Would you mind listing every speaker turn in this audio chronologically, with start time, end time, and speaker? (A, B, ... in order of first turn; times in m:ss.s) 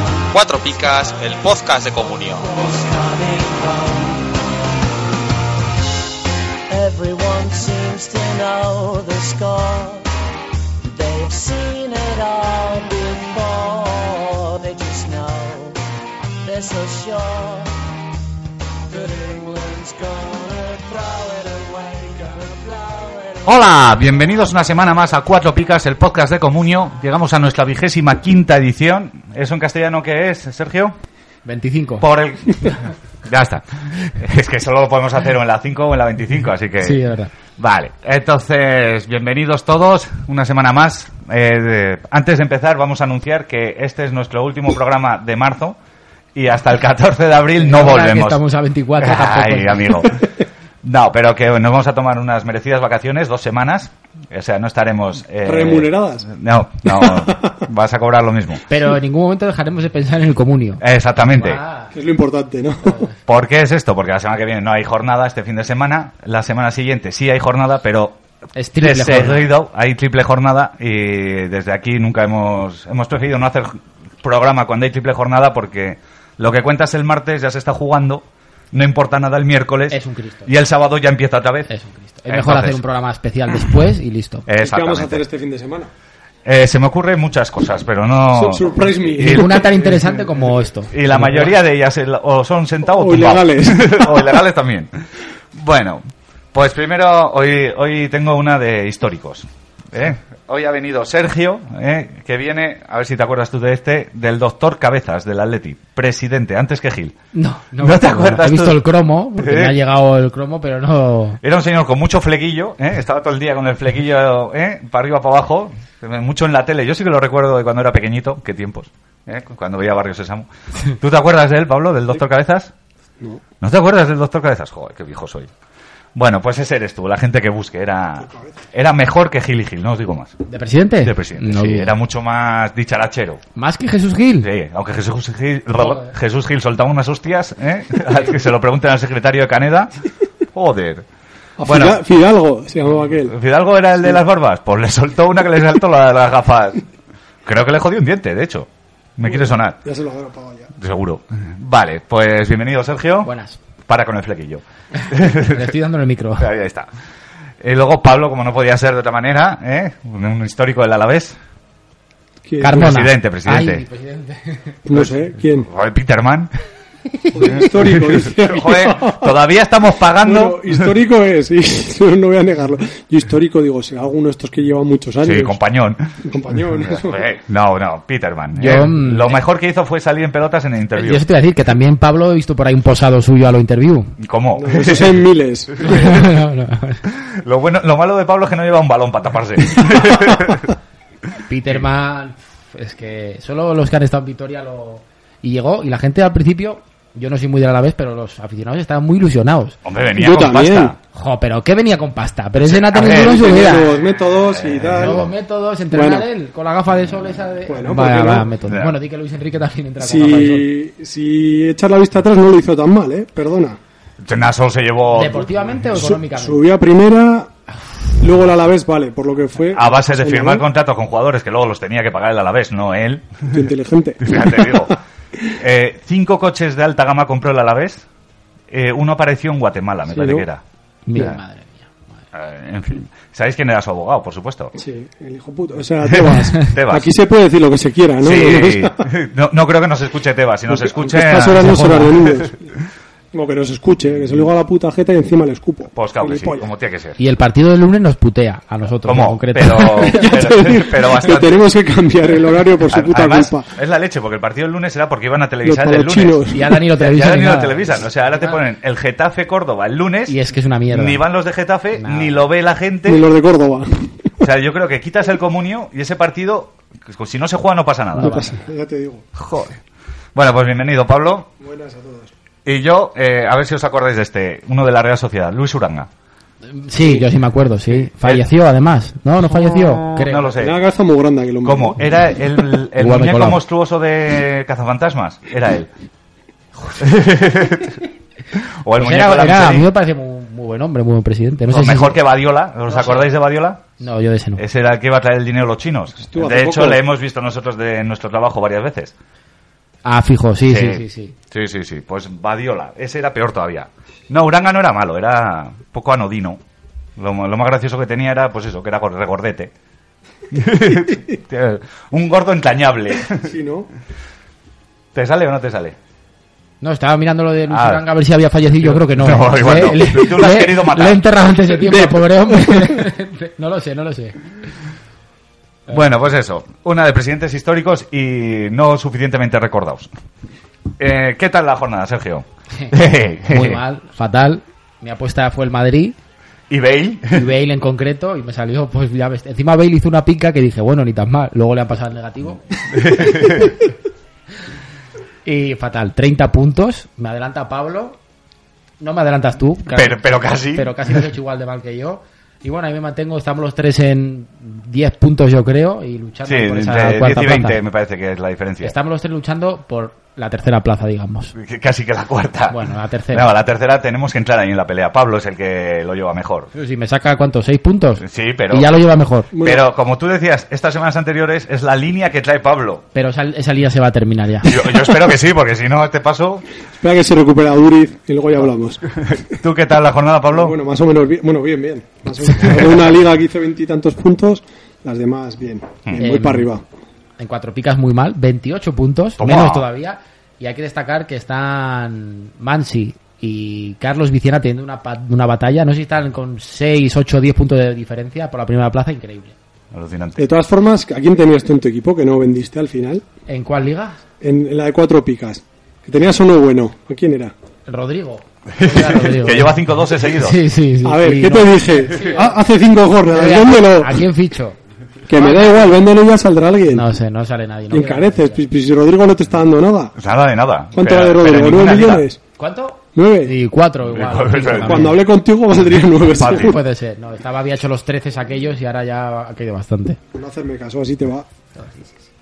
0:00.3-0:02.5 A
0:02.4-0:04.3 B
0:06.7-0:10.1 B
0:10.8-0:15.8 B
0:16.4-0:17.7 B
0:18.9-0:23.5 B
0:23.4-0:31.0 C
0:31.4-0:32.0 D
0:32.0-0:37.0 C
0:36.8-0:37.3 D
0:37.6-0:45.8 C
0:46.4-0:48.4 C
0:47.6-0:50.0 D
0:49.0-0:50.3 C
0:50.8-0:58.6 C
0:55.4-0:56.3 E
0:56.9-0:57.6 E
0:58.7-1:00.8 D
1:00.8-1:01.6 C
1:01.4-1:01.9 D
1:01.9-1:03.0 E
1:03.2-1:08.2 C
1:08.6-1:09.5 D
1:08.8-1:21.7 C
1:19.9-1:20.5 D
1:21.7-1:24.5 D
1:22.3-1:22.8 C
1:24.5-1:25.2 C
1:24.6-1:25.9 E
1:26.4-1:29.7 C
1:28.3-1:30.3 E
1:29.2-1:31.6 D
1:30.9-1:34.9 C
1:32.9-1:34.4 E
1:35.5-1:47.2 C
1:47.3-1:51.4 D
1:47.8-1:48.8 C
1:49.4-1:49.8 C
1:51.4-2:02.7 C
2:03.6-2:05.5 C
2:06.2-2:10.4 C
2:08.2-2:08.5 E
2:10.5-2:11.9 D
2:11.0-2:13.4 C
2:13.6-2:14.5 D
2:14.4-2:19.9 C
2:15.8-2:16.1 D
2:20.5-2:21.0 C
2:21.6-2:23.4 E
2:21.6-2:22.0 C
2:23.2-2:26.8 C
2:27.4-2:29.8 C
2:29.2-2:30.7 E
2:30.8-2:33.3 C
2:33.2-2:33.6 D
2:33.9-2:35.7 C
2:35.0-2:36.5 D
2:36.4-2:36.9 C
2:37.6-2:41.4 C
2:42.4-2:42.9 E
2:42.6-2:44.8 D
2:42.6-2:43.8 C
2:44.9-2:45.7 E
2:44.9-2:46.5 C
2:47.3-2:49.3 E
2:47.4-2:50.9 C
2:50.2-2:55.6 E
2:55.2-2:56.1 C
2:56.2-2:57.2 E
2:56.8-3:01.2 C
2:58.6-2:59.4 D
3:01.0-3:04.1 D
3:04.2-3:05.3 C
3:04.6-3:06.1 E
3:05.8-3:07.0 D
3:05.8-3:06.2 C
3:07.0-3:10.7 C
3:11.4-3:19.8 D
3:19.8-3:21.0 C
3:20.1-3:20.9 E
3:21.1-3:23.9 D
3:22.6-3:25.3 C
3:23.0-3:25.3 E
3:25.0-3:30.7 D
3:25.9-3:26.3 E
3:27.7-3:28.5 E
3:28.6-3:29.0 C
3:30.0-3:33.8 E
3:34.2-3:35.6 C
3:35.1-3:36.7 D
3:35.9-3:37.5 E
3:38.2-3:40.6 E
3:39.7-3:43.6 C
3:43.5-3:44.9 E
3:44.2-3:45.0 C
3:45.5-3:48.1 C
3:48.7-3:50.6 C
3:50.1-3:50.4 E
3:51.1-3:51.8 D
3:51.1-3:51.4 C
3:52.3-3:54.7 C
3:54.8-3:59.1 E
3:56.0-3:57.1 C
3:58.2-4:02.5 C
4:00.7-4:02.7 E
4:01.6-4:02.4 D
4:03.3-4:06.6 E
4:06.0-4:07.2 C
4:07.2-4:10.3 D
4:09.0-4:11.7 C
4:10.0-4:13.7 E
4:12.9-4:20.4 C
4:15.6-4:16.8 E
4:16.5-4:18.6 D
4:20.3-4:21.2 D
4:20.9-4:23.3 C
4:22.0-4:22.4 D
4:23.1-4:23.9 E
4:24.4-4:28.5 C
4:28.2-4:29.2 E
4:28.2-4:28.6 D
4:29.4-4:29.8 C
4:30.4-4:31.5 C
4:31.6-4:32.3 E
4:32.6-4:36.1 C
4:36.7-4:40.5 D
4:37.0-4:37.3 E
4:39.4-4:40.8 C
4:40.6-4:42.0 E
4:41.6-4:45.9 C
4:43.0-4:43.6 D
4:47.0-4:48.0 C
4:48.5-4:49.9 C
4:48.9-4:52.2 D
4:51.7-4:53.8 C
4:52.9-4:53.3 D
4:54.0-4:54.6 D
4:54.6-4:59.1 C
4:56.2-4:57.0 E
5:00.0-5:01.4 D
5:00.6-5:06.6 C
5:07.2-5:09.7 C
5:10.5-5:13.5 C
5:13.4-5:13.9 E
5:15.1-5:16.0 C
5:16.8-5:24.5 D
5:17.7-5:18.0 C
5:18.8-5:21.2 C
5:21.8-5:23.0 E
5:25.9-5:30.1 C
5:31.0-5:33.8 C
5:32.8-5:36.2 D
5:36.7-5:37.4 C
5:37.3-5:43.7 D
5:43.0-5:43.8 C
5:45.4-5:48.2 D
5:49.0-5:57.8 D
5:49.9-5:51.0 C
5:56.4-5:59.0 C
5:58.8-6:01.5 D
6:01.6-6:06.7 C
6:02.7-6:03.5 D
6:06.7-6:09.5 D
6:08.2-6:09.0 C
6:09.5-6:09.8 E
6:09.6-6:13.0 C
6:13.2-6:15.1 D
6:14.6-6:16.6 C
6:17.0-6:19.2 E
6:19.2-6:20.8 C
6:20.5-6:26.8 E
6:22.5-6:23.2 C
6:26.2-6:26.7 D
6:27.4-6:39.5 D
6:29.4-6:29.9 C
6:39.9-6:40.5 C
6:40.4-6:43.2 E
6:43.5-6:44.2 D
6:44.4-6:47.5 E
6:47.9-6:52.6 D
6:48.7-6:50.6 C
6:51.0-6:54.2 E
6:53.3-6:54.8 D
6:55.3-6:57.1 E
6:55.3-6:56.0 D
6:56.9-6:58.6 D
6:57.9-7:00.2 E
7:00.2-7:02.3 C
7:00.9-7:02.4 E
7:02.6-7:05.2 D
7:03.2-7:03.6 E
7:04.0-7:05.2 C
7:04.8-7:06.8 E
7:06.3-7:06.8 C
7:06.4-7:10.2 D
7:10.3-7:11.5 E
7:11.8-7:12.1 D